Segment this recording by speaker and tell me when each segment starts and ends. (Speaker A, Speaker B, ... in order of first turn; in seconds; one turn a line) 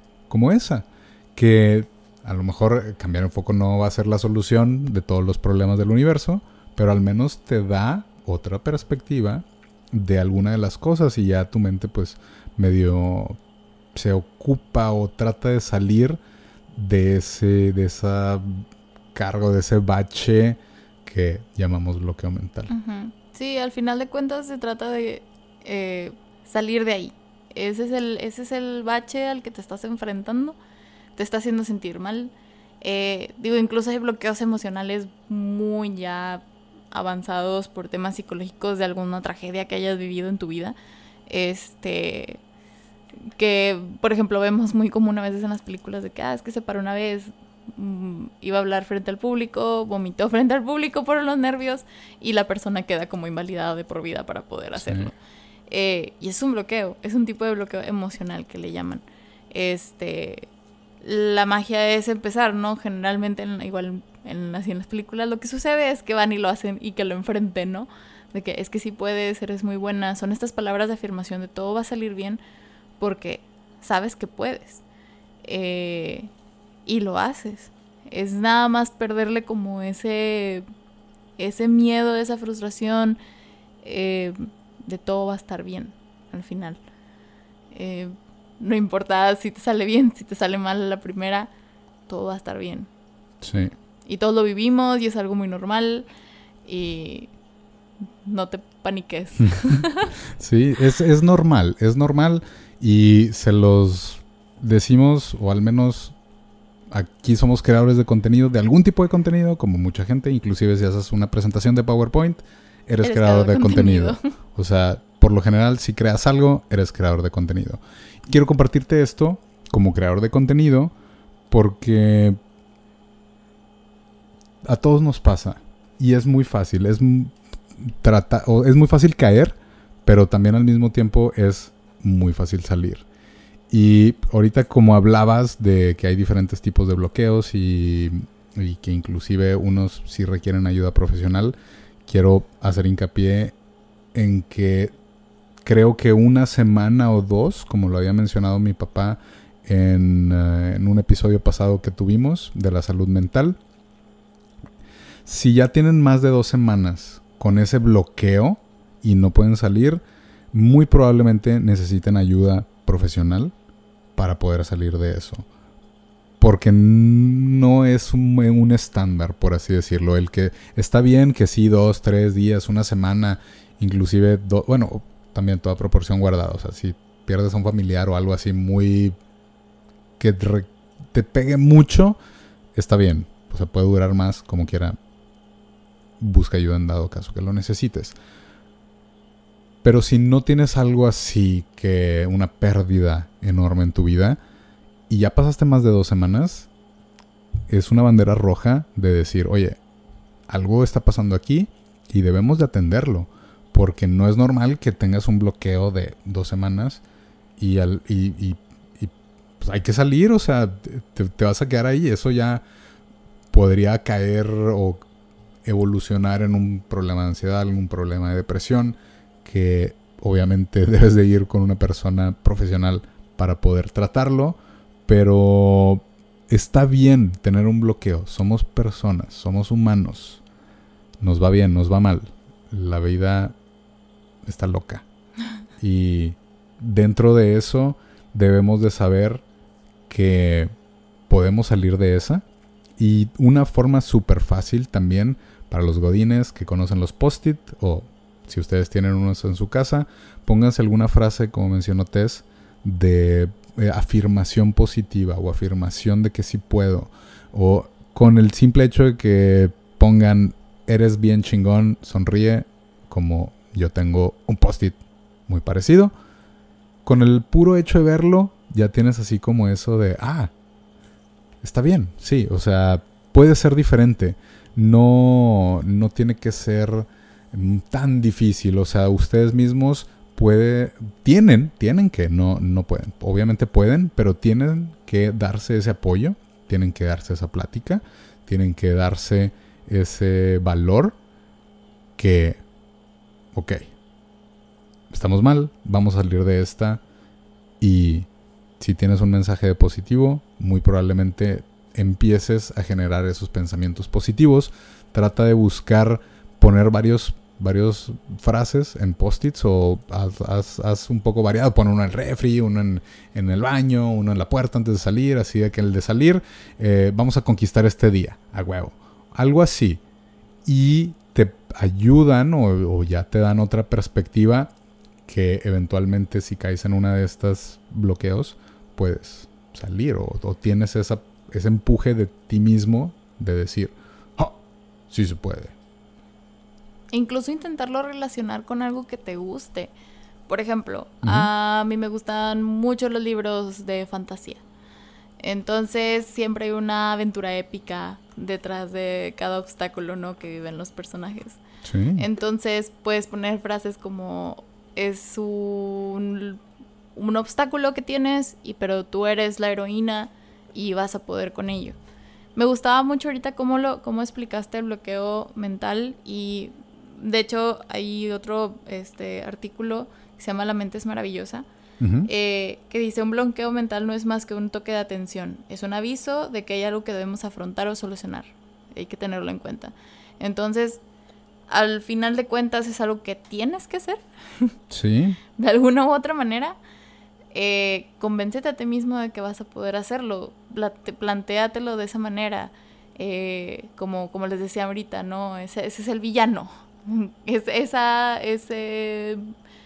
Speaker A: 0.3-13.4
Speaker A: 13.9-16.2
Speaker A: 16.7-22.7
Speaker B: 22.7-30.6
Speaker B: 31.2-40.8
Speaker B: 41.3-42.4
Speaker B: 43.4-55.1
Speaker A: 54.8-55.1
Speaker B: 55.7-60.5
Speaker B: 61.0-72.4
Speaker B: 73.0-74.8
Speaker B: 75.4-76.3
Speaker B: 76.9-80.7
Speaker B: 81.4-83.2
Speaker B: 83.8-86.8
Speaker B: 87.7-91.5
Speaker B: 92.1-92.9
Speaker A: 93.4-93.7
Speaker B: 94.1-96.1
Speaker B: 96.7-97.3
Speaker B: 98.1-100.1
Speaker A: 99.4-99.8
Speaker A: 100.4-106.2
Speaker A: 106.9-120.9
Speaker B: 113.0-114.2
Speaker A: 121.5-122.4
Speaker A: 124.7-133.1
Speaker A: 133.7-143.5
Speaker A: 144.1-144.9
Speaker A: 145.6-153.6
Speaker A: 155.3-163.5
Speaker A: 164.2-165.5
Speaker A: 166.4-179.2
Speaker A: 180.2-182.2
Speaker A: 182.8-185.0
Speaker A: 186.2-188.2
Speaker A: 189.8-194.4
Speaker A: 195.1-196.7
Speaker A: 197.7-199.8
Speaker A: 200.5-207.0
Speaker A: 207.6-212.7
Speaker A: 213.5-215.0
Speaker A: 215.7-230.4
Speaker A: 231.2-233.6
Speaker A: 234.4-235.1
Speaker A: 235.8-239.4
Speaker A: 240.1-240.7
Speaker A: 241.3-242.4
Speaker A: 243.0-266.1
Speaker A: 267.1-270.5
Speaker A: 271.6-291.2
Speaker A: 292.2-292.6
Speaker A: 293.5-293.9
Speaker A: 295.1-297.0
Speaker A: 297.8-298.3
Speaker A: 298.8-320.0
Speaker A: 320.6-324.7
Speaker A: 325.3-334.6
Speaker A: 335.1-335.7
Speaker B: 337.1-339.9
Speaker B: 340.5-344.6
Speaker A: 341.2-341.5
Speaker B: 345.4-351.6
Speaker A: 351.8-352.2
Speaker B: 352.2-356.6
Speaker B: 357.1-362.0
Speaker B: 362.6-371.7
Speaker A: 372.0-372.3
Speaker B: 372.2-381.0
Speaker B: 381.7-384.8
Speaker A: 384.9-385.4
Speaker B: 385.6-386.8
Speaker B: 387.5-399.4